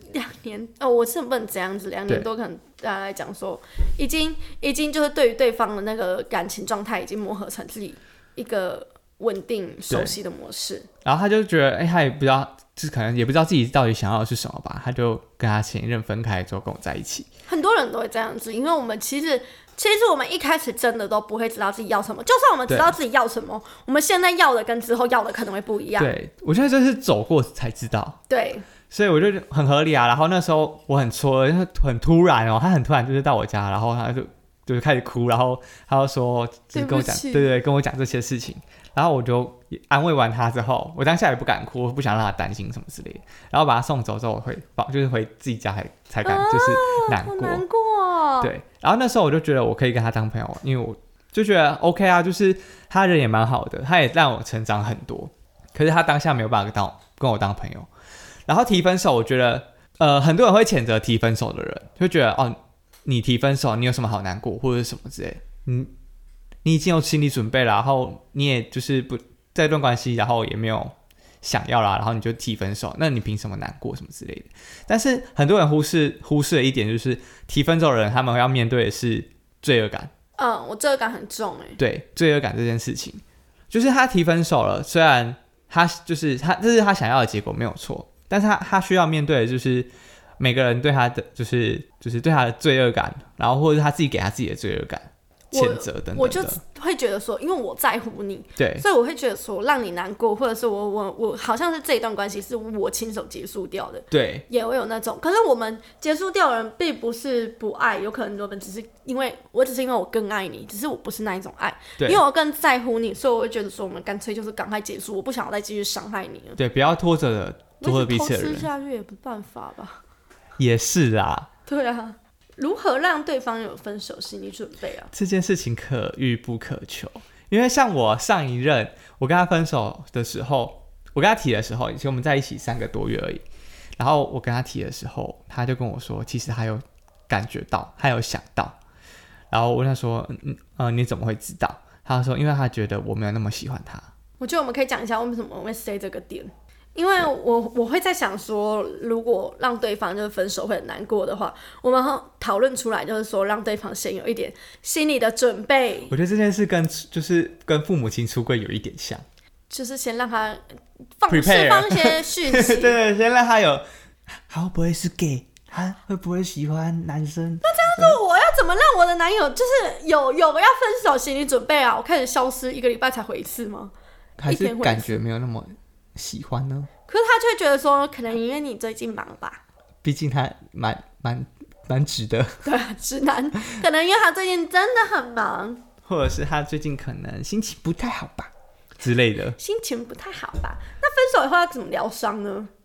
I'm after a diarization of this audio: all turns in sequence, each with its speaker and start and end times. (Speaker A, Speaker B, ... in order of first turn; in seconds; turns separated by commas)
Speaker A: 0.1-10.9, Speaker B: 9.9-10.1, Speaker B: 11.0-17.3, Speaker A: 17.5-26.1, Speaker B: 22.7-22.9, Speaker B: 26.0-28.2, Speaker A: 28.3-28.6, Speaker B: 28.9-47.6, Speaker A: 36.7-37.5, Speaker A: 46.2-48.5, Speaker B: 48.4-57.9, Speaker B: 58.5-65.9, Speaker B: 66.6-80.1, Speaker A: 80.4-81.8, Speaker B: 81.8-96.6, Speaker A: 95.5-116.6, Speaker B: 98.6-98.8, Speaker B: 104.1-104.4, Speaker B: 116.6-118.7, Speaker A: 117.8-120.0, Speaker B: 120.6-121.5, Speaker A: 121.7-125.1, Speaker B: 125.1-133.4, Speaker B: 134.0-138.8, Speaker B: 139.5-144.1, Speaker A: 144.4-156.1, Speaker B: 156.1-159.2, Speaker A: 159.7-160.6, Speaker A: 161.2-163.0, Speaker B: 161.3-163.8, Speaker B: 164.5-168.2, Speaker A: 167.6-173.9, Speaker B: 174.4-176.9, Speaker A: 174.5-175.2, Speaker A: 177.1-179.6, Speaker B: 180.0-182.6, Speaker A: 182.6-185.8, Speaker B: 186.0-189.6, Speaker A: 189.6-192.7